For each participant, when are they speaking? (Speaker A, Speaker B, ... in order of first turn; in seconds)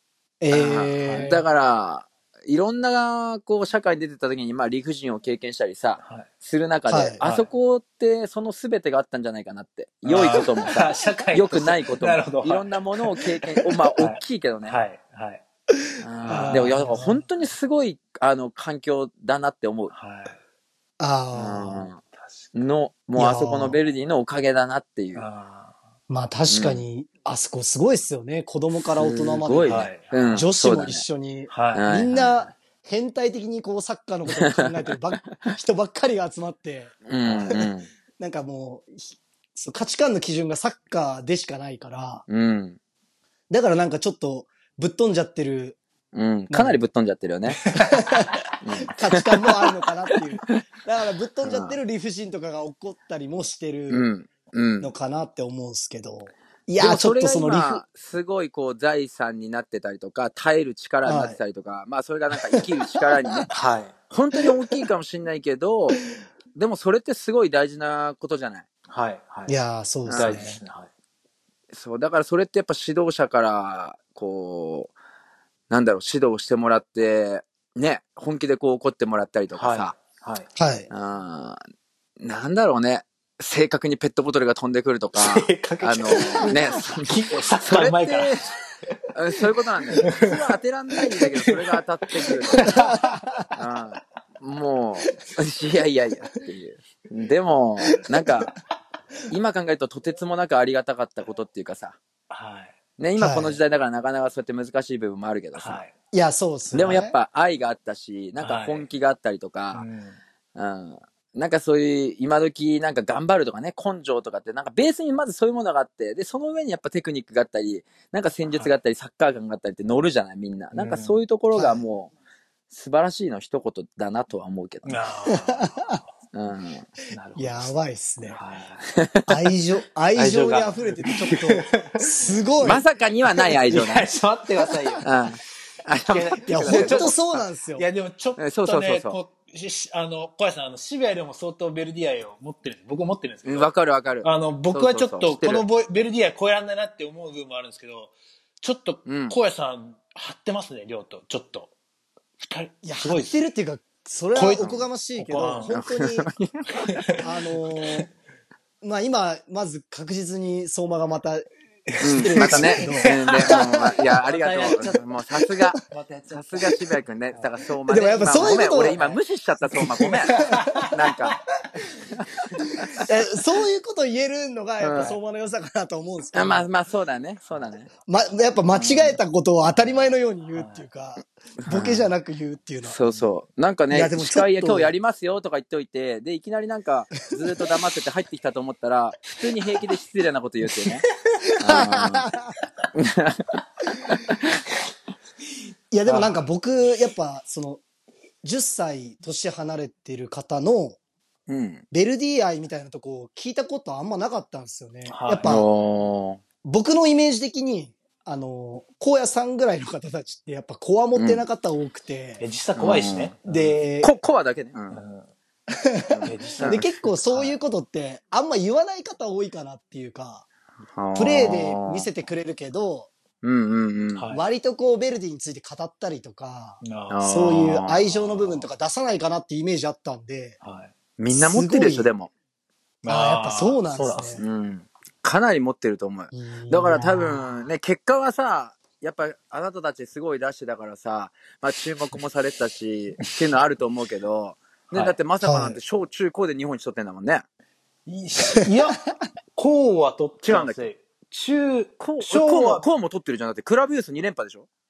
Speaker A: 0.4-1.4, 6.9-7.2, 16.3-16.8, 21.0-21.9, 23.2-23.8, 26.1-42.2, 43.5-45.8, 46.5-46.8, 47.8-54.1, 54.8-57.8, 61.0-61.4, 62.5-63.5, 64.4-64.9, 69.5-70.6, 80.6-80.9, 92.7-93.5, 98.1-98.4, 103.2-103.6, 106.1-107.2, 121.5-121.8, 125.3-126.0, 127.4-128.4, 129.3-132.8, 136.5-137.9, 152.8-156.3, 157.2-158.1, 158.8-161.5, 162.0-164.0, 167.9-169.0, 169.8-170.9, 173.0-176.7, 178.1-183.0, 183.9-184.9, 191.6-192.5, 195.9-197.8, 198.4-201.0, 201.9-205.7, 206.6-212.4, 213.4-214.1, 215.7-220.4, 221.2-223.1, 224.3-230.6, 231.3-232.1, 233.1-234.4, 236.3-237.5, 245.4-245.8
Speaker B: 0.5-14.8, 16.0-19.9, 21.3-22.0, 22.5-25.3, 26.5-26.8, 29.0-31.1, 31.7-32.4, 34.3-35.5, 37.1-37.9, 42.3-42.8, 46.1-47.7, 48.6-49.5, 51.4-51.8, 53.9-54.9, 56.8-63.5, 64.1-66.0, 66.5-68.7, 70.1-70.5, 71.7-74.9, 75.7-80.0, 80.9-81.6, 82.2-88.4, 89.1-92.8, 93.5-98.5, 99.3-102.0, 103.0-105.8, 106.7-109.8, 110.5-122.1, 122.7-125.0, 126.3-126.9, 129.0-129.3, 132.6-134.1, 135.0-137.4, 138.4-139.2, 143.4-145.7, 149.1-149.4, 154.6-154.8, 155.7-156.5, 162.0-165.8, 166.3-171.4, 172.2-173.0, 174.8-175.2, 176.3-177.9, 178.7-179.2, 181.6-182.1, 182.8-191.1, 191.6-192.3, 192.9-193.6, 194.1-194.4, 201.5-201.8, 205.4-206.4, 211.2-211.4, 212.8-213.3, 214.0-215.0, 216.1-216.8, 221.0-222.1, 223.4-224.3, 227.1-228.0, 231.2-232.3, 234.4-247.4, 250.4-250.8, 252.0-254.7
Speaker C: 1.0-1.4, 6.0-6.3, 7.2-7.5, 10.1-13.2, 14.0-15.4, 16.3-17.2, 19.9-20.4, 22.1-22.5, 25.2-25.8, 29.7-30.5, 31.5-31.9, 37.2-37.6, 47.6-48.0, 63.5-64.0, 68.9-69.5, 70.1-70.9, 79.5-80.5, 85.2-88.5, 90.0-90.4, 91.2-91.6, 92.3-93.2, 102.3-102.8, 105.6-105.9, 108.4-108.8, 109.7-110.2, 118.5-118.7, 120.7-121.2, 124.8-126.0, 127.1-127.7, 128.3-128.9, 130.1-132.4, 133.7-135.1, 136.0-137.2, 137.8-143.7, 144.2-151.7, 152.4-153.4, 154.3-155.7, 156.7-157.2, 161.9-165.1, 165.9-166.8, 168.3-169.2, 170.3-171.4, 179.7-180.8, 196.1-196.4, 205.1-205.5, 212.4-213.8, 214.9-215.3, 216.2-217.6, 224.2-224.4, 226.8-227.3, 230.6-230.9, 233.0-234.4, 244.9-245.2, 248.1-249.0, 249.6-252.9